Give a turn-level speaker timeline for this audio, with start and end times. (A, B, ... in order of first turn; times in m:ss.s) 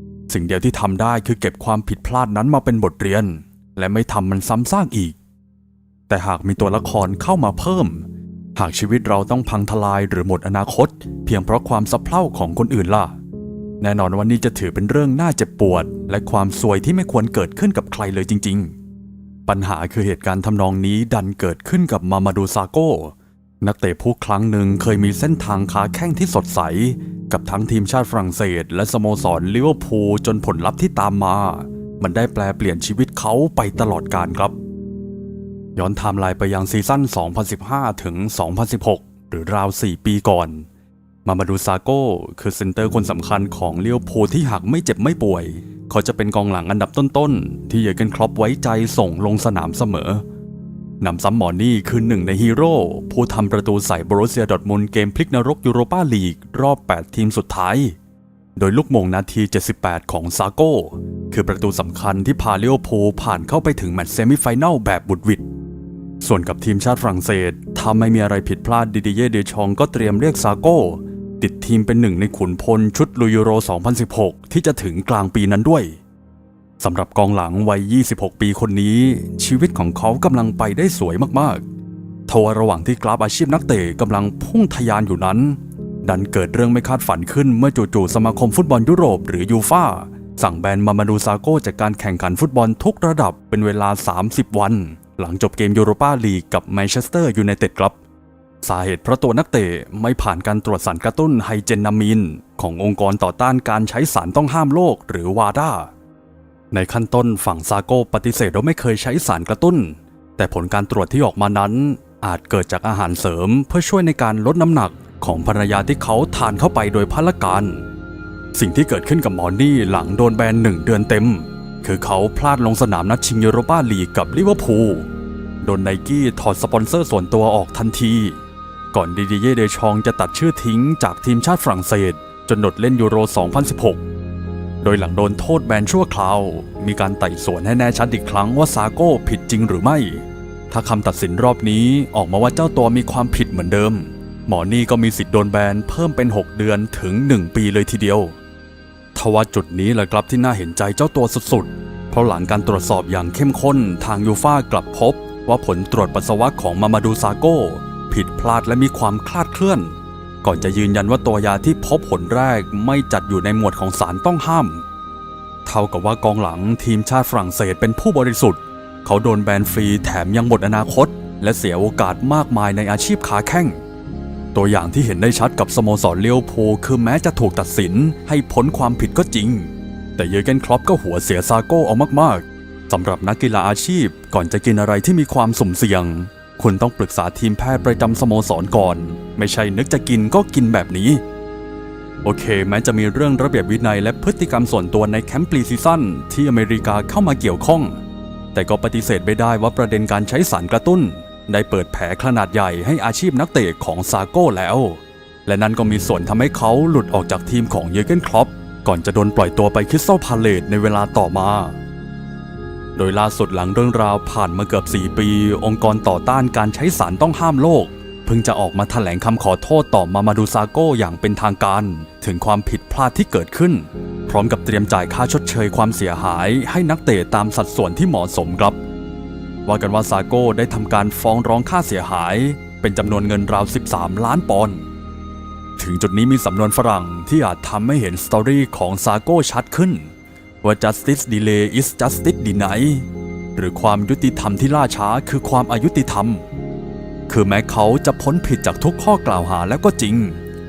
0:00.3-0:05.2 A
0:06.1-0:13.2 A
0:13.8-0:18.8 A
0:19.5-0:34.6 A
0:35.8-0:40.7 A
0:41.2-0:50.2 A
0:51.0-0:58.0 A
0:58.6-1:05.4 A
1:06.2-1:16.0 A
1:16.8-1:21.6 A
1:22.3-1:38.0 A
1:38.6-1:45.9 A
1:46.7-1:57.8 A
1:58.5-2:05.1 A
2:05.6-2:08.4 A
2:08.9-2:14.0 A
2:14.8-2:28.4 A
2:29.2-2:44.8 A
2:45.6-2:53.8 A
2:54.5-3:11.2 A
3:12.2-3:18.0 A
3:18.5-3:31.8 A
3:33.0-3:48.8 A
3:49.7-3:54.9 A
3:55.8-4:00.1 A
4:00.6-4:06.4 A
4:07.3-4:10.4 A